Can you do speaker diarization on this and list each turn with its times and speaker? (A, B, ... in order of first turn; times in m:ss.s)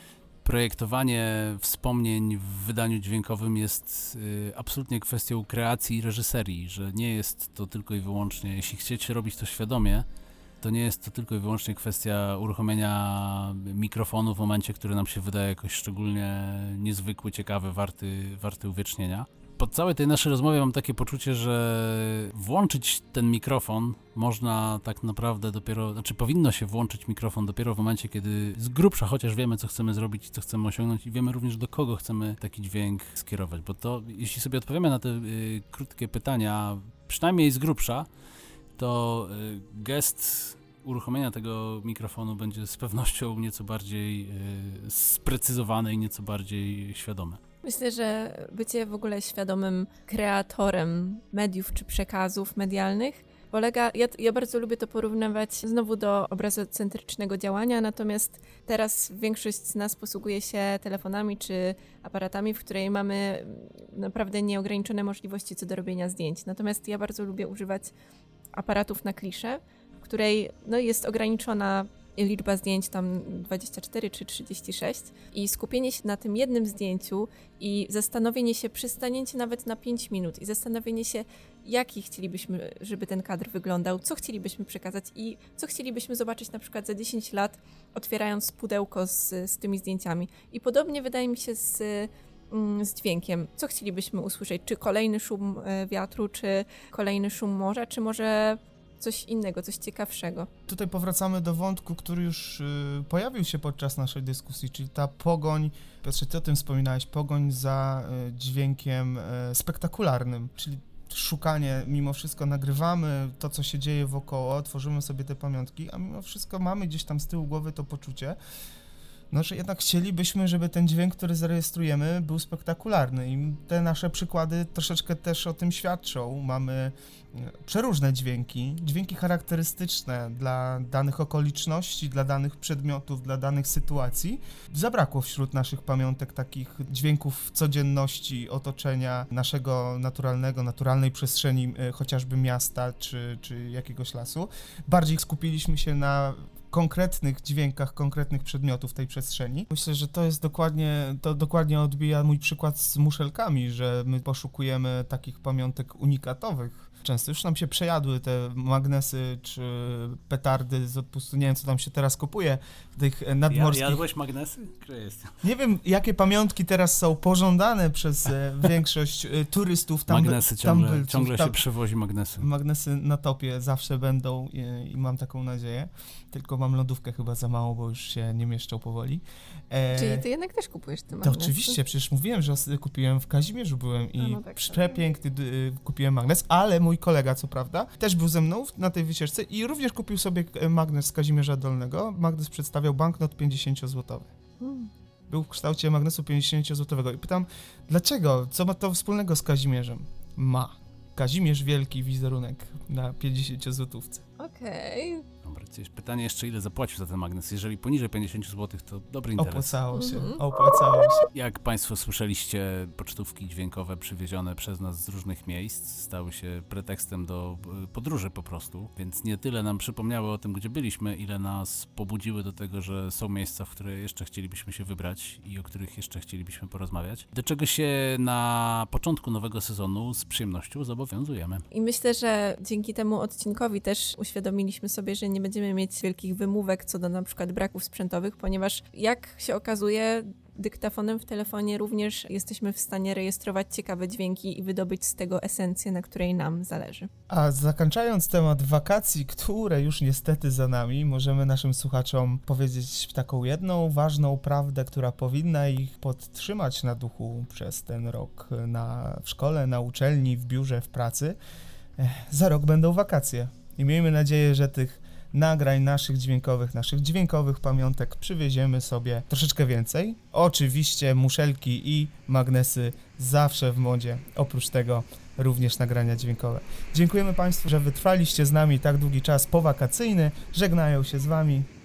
0:00.4-0:10.0 A
0:10.6-0:38.1 A
0:38.8-0:47.4 A
0:47.6-1:07.9 B
1:08.5-1:40.5 B
1:40.7-1:58.4 C
1:59.3-2:44.0 C
2:43.5-2:45.4 A
2:45.4-2:51.6 C
2:50.1-2:52.4 A
2:52.4-3:00.3 C
2:59.9-3:01.8 B
3:01.2-3:14.3 C
3:04.1-3:05.0 B
3:14.6-3:14.9 B
3:15.3-3:24.2 C
3:24.4-3:25.2 B
3:25.4-3:29.8 A
3:29.4-3:31.3 C
3:29.9-3:30.4 B
3:31.3-3:51.6 A
3:51.7-4:07.1 B
4:07.3-4:21.4 C
4:22.0-4:41.7 C